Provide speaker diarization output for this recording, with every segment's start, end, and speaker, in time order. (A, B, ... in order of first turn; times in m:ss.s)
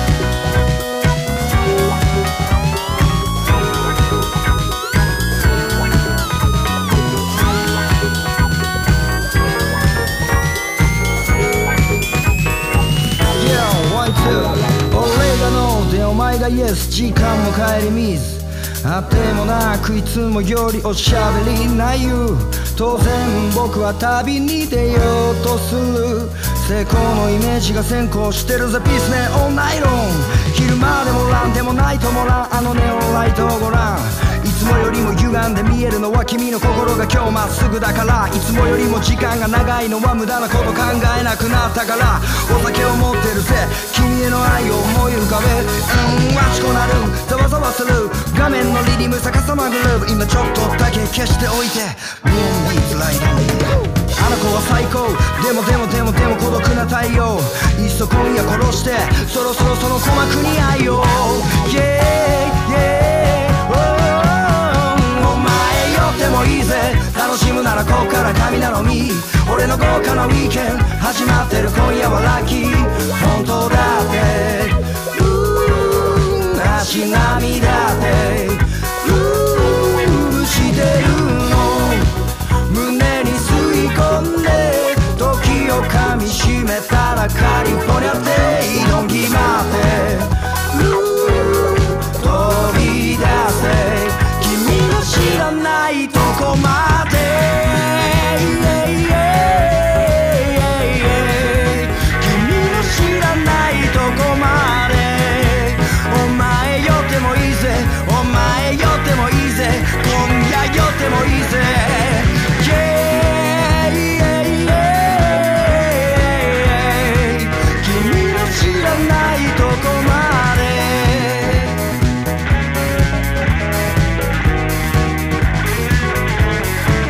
0:13.4-1:22.1 A
1:22.7-2:01.8 A